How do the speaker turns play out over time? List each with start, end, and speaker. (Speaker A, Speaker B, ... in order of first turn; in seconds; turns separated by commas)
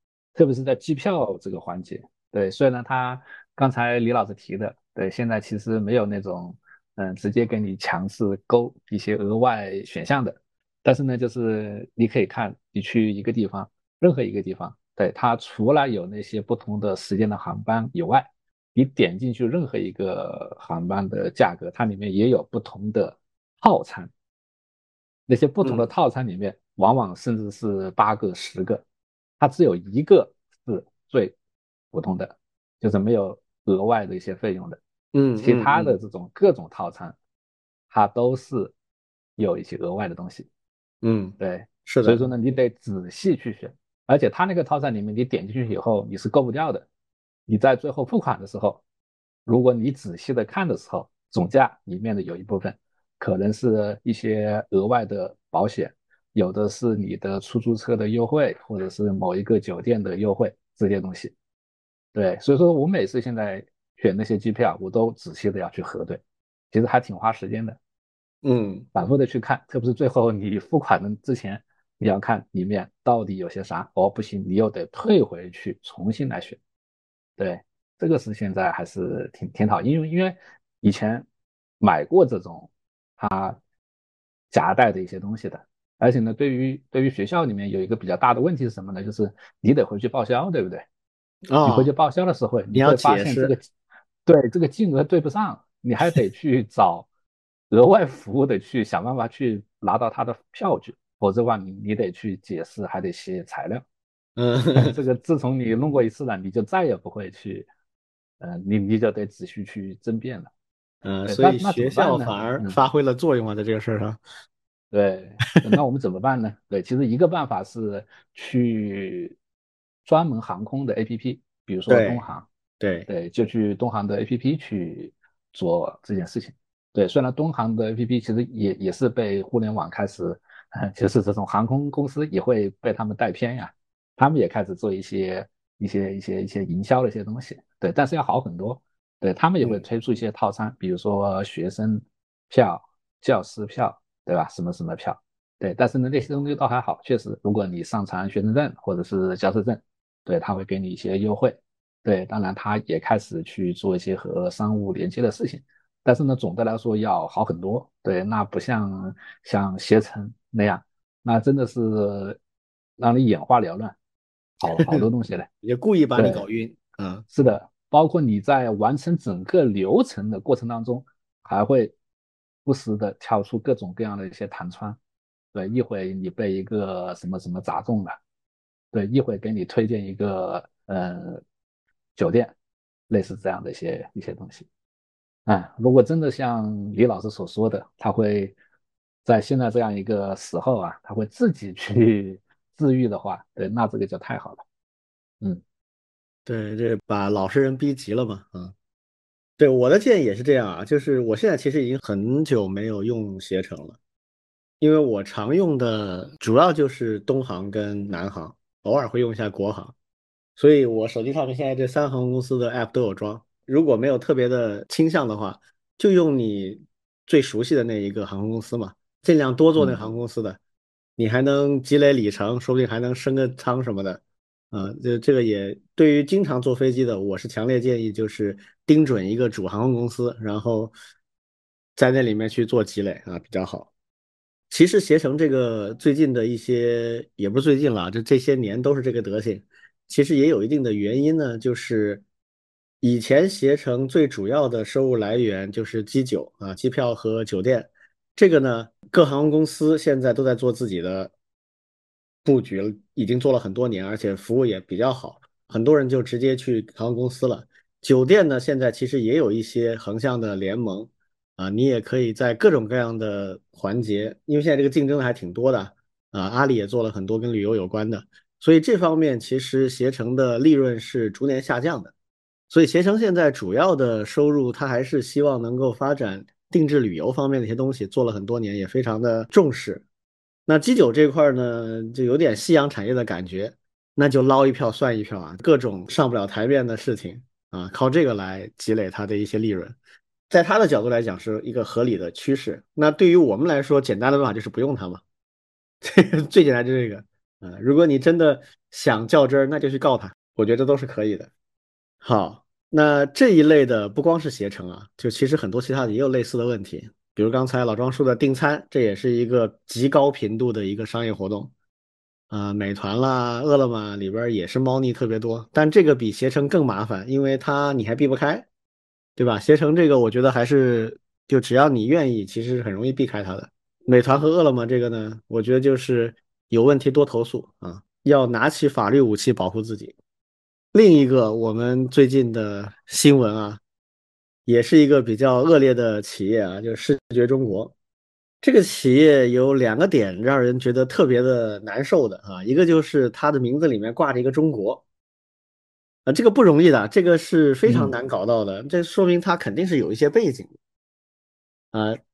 Speaker A: 0.3-24.1, Speaker A: 25.3-28.8, Speaker B: 25.6-25.9, Speaker A: 29.4-31.3, Speaker A: 31.9-34.8, Speaker B: 35.1-36.0, Speaker A: 35.4-37.1, Speaker A: 37.9-38.7, Speaker A: 39.4-40.5, Speaker B: 41.0-42.2, Speaker A: 41.4-46.9, Speaker A: 47.5-48.8, Speaker A: 49.5-61.3, Speaker A: 62.1-66.2, Speaker A: 66.7-67.8, Speaker B: 68.4-68.9, Speaker A: 68.9-76.6, Speaker A: 77.4-81.2, Speaker A: 81.8-83.6, Speaker A: 84.5-90.8, Speaker B: 91.5-91.9, Speaker A: 91.6-93.6, Speaker B: 92.7-93.5, Speaker A: 94.2-97.1, Speaker A: 97.7-103.8, Speaker B: 104.4-105.0, Speaker A: 104.7-107.7, Speaker A: 108.4-110.5, Speaker B: 111.0-114.2, Speaker A: 111.2-112.8, Speaker A: 114.9-119.4, Speaker A: 120.0-122.5, Speaker B: 121.9-122.2, Speaker B: 122.8-123.1, Speaker A: 123.1-162.4, Speaker A: 163.0-163.9, Speaker A: 164.6-165.5, Speaker B: 164.8-165.0, Speaker B: 165.6-167.2, Speaker A: 166.2-166.4, Speaker A: 167.3-171.9, Speaker A: 172.6-175.0, Speaker A: 175.5-178.2, Speaker A: 178.9-181.4, Speaker A: 182.2-182.5, Speaker A: 183.1-184.7, Speaker A: 185.4-188.5, Speaker A: 189.2-194.6, Speaker B: 196.4-198.7, Speaker B: 199.6-204.0, Speaker B: 204.8-209.9, Speaker B: 210.6-220.6, Speaker A: 219.8-220.1, Speaker B: 221.2-230.9, Speaker B: 231.9-233.9, Speaker B: 234.7-242.2, Speaker B: 243.0-251.3, Speaker B: 252.4-272.1, Speaker B: 272.7-280.0, Speaker B: 280.7-289.9, Speaker B: 290.5-295.2, Speaker B: 296.0-301.5, Speaker B: 302.2-311.7, Speaker B: 312.5-318.7, Speaker B: 319.4-330.1, Speaker B: 330.9-333.8, Speaker B: 334.6-337.9, Speaker B: 338.6-345.0, Speaker B: 346.2-350.7, Speaker A: 347.9-348.1, Speaker B: 351.9-352.2